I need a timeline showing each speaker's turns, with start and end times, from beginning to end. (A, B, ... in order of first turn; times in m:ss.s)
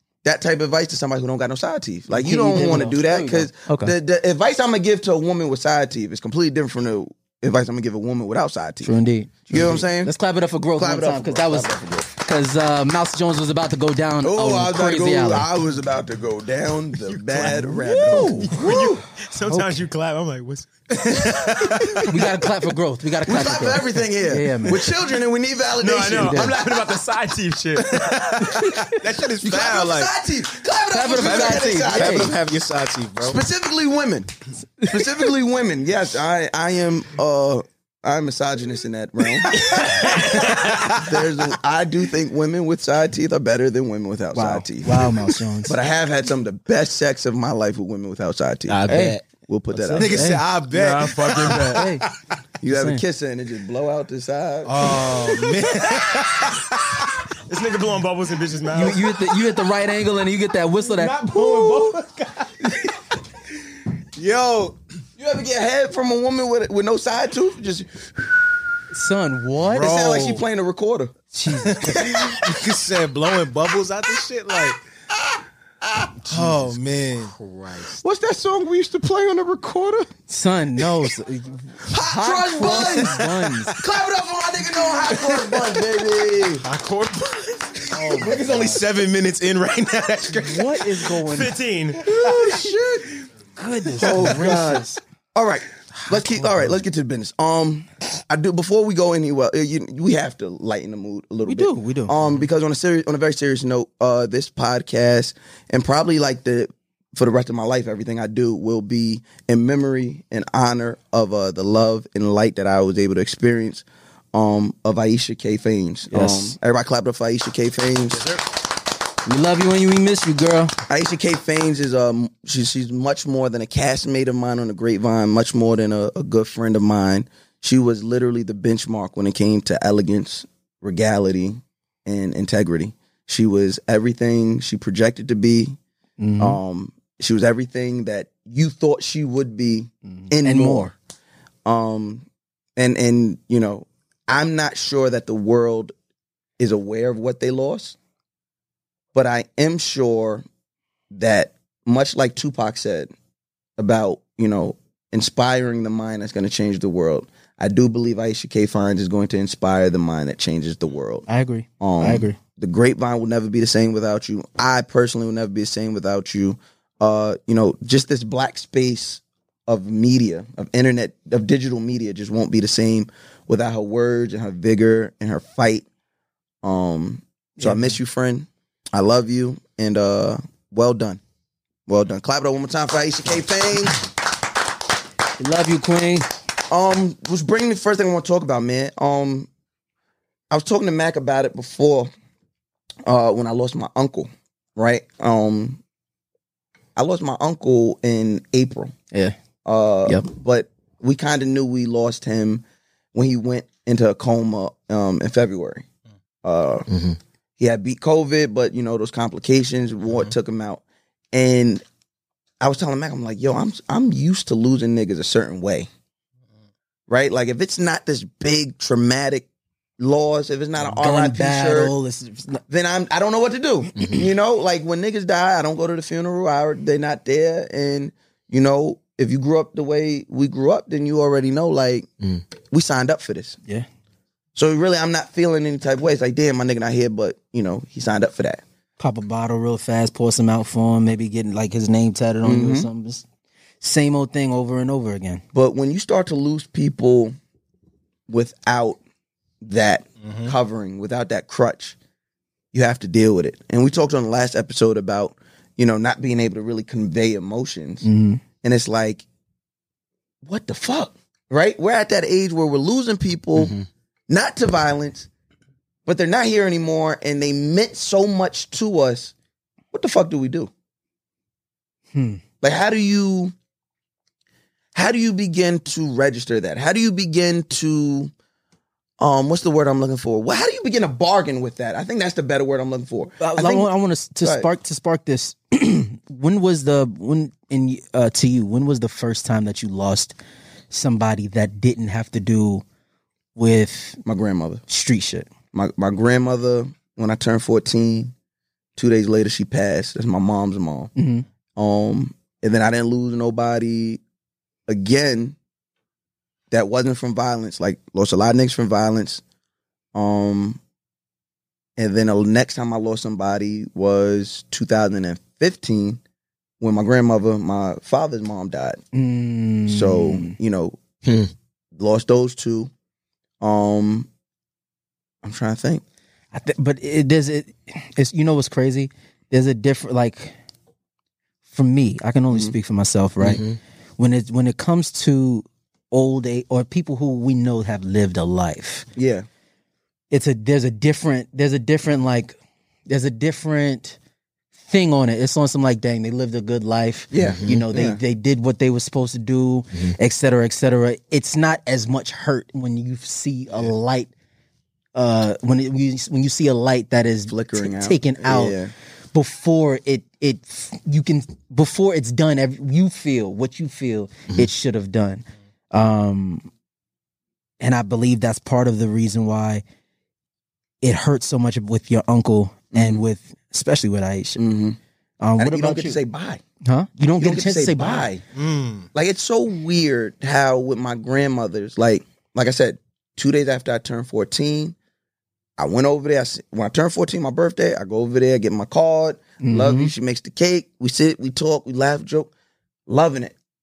0:00.2-0:08.9 A
0:02.1-0:03.9 B
0:08.8-0:15.5 B
0:09.5-0:10.1 A
0:10.8-0:12.1 A
0:14.2-0:19.0 A
0:17.1-0:22.1 C
0:17.6-0:18.6 B
0:19.5-0:19.7 B
0:22.0-0:24.8 B
0:23.2-0:26.8 A
0:25.8-0:28.5 C
0:26.2-0:26.5 B
0:28.5-0:30.1 D
0:29.4-0:32.4 A
0:30.9-0:32.3 B
0:31.2-0:33.4 D
0:33.2-0:45.1 A
0:39.6-0:41.0 D
0:44.3-0:45.7 B
0:45.6-0:48.9 A
0:48.7-0:49.2 C
0:48.9-0:49.2 B
0:49.4-0:50.4 A
0:49.9-0:50.4 B
0:50.0-0:52.2 D
0:50.7-0:51.8 C
0:51.6-0:52.0 B
0:52.6-0:55.4 A
0:52.6-0:53.0 B
0:54.6-0:57.1 D
0:57.5-0:59.0 C
0:58.7-1:01.2 B
1:00.9-1:02.9 D
1:01.3-1:02.0 A
1:04.2-1:04.8 D
1:05.2-1:08.4 A
1:08.9-1:10.0 B
1:09.6-1:10.4 D
1:09.7-1:11.1 A
1:11.3-1:12.0 B
1:11.6-1:14.8 D
1:11.8-1:12.5 A
1:15.8-1:16.3 A
1:16.3-1:17.3 D
1:17.4-1:17.9 C
1:18.0-1:20.1 A
1:20.3-1:23.8 B
1:21.8-1:26.6 A
1:25.1-1:25.6 D
1:26.6-1:31.1 D
1:28.0-1:28.8 A
1:28.1-1:28.8 B
1:30.3-1:31.5 B
1:31.3-1:32.0 C
1:32.0-1:32.7 D
1:32.0-1:33.1 A
1:33.6-1:35.0 B
1:34.0-1:58.3 A
1:41.5-1:42.2 B
1:56.1-1:56.6 B
1:59.2-2:00.8 B
2:00.9-2:15.8 A
2:16.2-2:16.6 B
2:16.4-2:20.9 A
2:20.1-2:20.9 B
2:21.6-2:22.2 A
2:22.8-2:25.9 A
2:26.6-2:28.0 A
2:29.1-2:30.4 A
2:31.1-2:33.1 A
2:33.8-2:41.2 A
2:41.3-2:42.4 B
2:41.8-2:55.8 A
2:56.6-3:01.2 A
2:57.6-2:57.9 B
3:01.9-3:04.0 A
3:05.4-3:06.3 B
3:06.7-3:09.5 A
3:10.5-3:12.1 A
3:13.0-3:15.8 A
3:17.0-3:18.9 A
3:19.6-3:25.8 A
3:26.4-3:26.9 A
3:26.9-3:27.2 C
3:27.6-3:31.8 A
3:32.6-3:35.9 A
3:37.1-3:39.5 A
3:40.0-3:42.0 A
3:40.8-3:42.6 B
3:42.7-3:52.1 A
3:52.7-3:53.6 A
3:54.5-3:58.6 A
3:59.0-4:03.2 B
4:02.4-4:02.9 A
4:03.8-4:05.4 B
4:05.5-4:07.3 A
4:08.3-4:09.0 A
4:09.6-4:12.0 A
4:12.7-4:18.0 A
4:18.0-4:18.4 B
4:18.6-4:19.2 A
4:20.4-4:23.8 A
4:23.6-4:23.8 C
4:24.3-4:25.3 A
4:26.0-4:29.3 A
4:29.9-4:30.7 A
4:32.1-4:32.4 B
4:32.6-4:33.5 A
4:35.0-4:38.3 A
4:39.2-4:44.7 A
4:43.4-4:50.4 B
4:50.9-4:52.8 B
4:53.6-4:54.2 B
4:54.2-4:54.8 A
4:54.9-4:55.5 B
4:55.7-4:58.3 A
4:59.0-5:01.1 A
5:01.2-5:01.4 B
5:01.8-5:04.2 A
5:04.9-5:05.6 A
5:06.7-5:09.4 A
5:10.1-5:10.8 A
5:12.0-5:16.2 A
5:16.8-5:19.0 A
5:19.1-5:20.6 B
5:19.9-5:21.0 A
5:21.2-5:21.5 C
5:22.0-5:22.9 A
5:23.6-5:24.3 A
5:25.4-5:26.0 A
5:26.5-5:30.6 B
5:31.7-5:33.6 B
5:32.5-5:32.8 A
5:33.4-5:33.8 C
5:34.2-5:39.1 B
5:39.2-5:39.5 A
5:40.3-5:42.6 B
5:43.1-5:44.2 B
5:44.9-5:54.3 B
5:47.3-5:48.2 A
5:55.2-5:58.8 B
5:57.5-5:58.9 A
5:59.3-6:06.7 B
6:07.8-6:09.8 B
6:11.0-6:14.6 B
6:12.9-6:13.2 A
6:14.6-6:15.0 A
6:15.4-6:16.2 B
6:15.6-6:16.6 A
6:16.8-6:18.3 B
6:17.4-6:18.4 A
6:18.5-6:19.1 D
6:19.1-6:25.0 A
6:25.8-6:32.5 A
6:29.6-6:30.1 B
6:33.1-6:33.5 A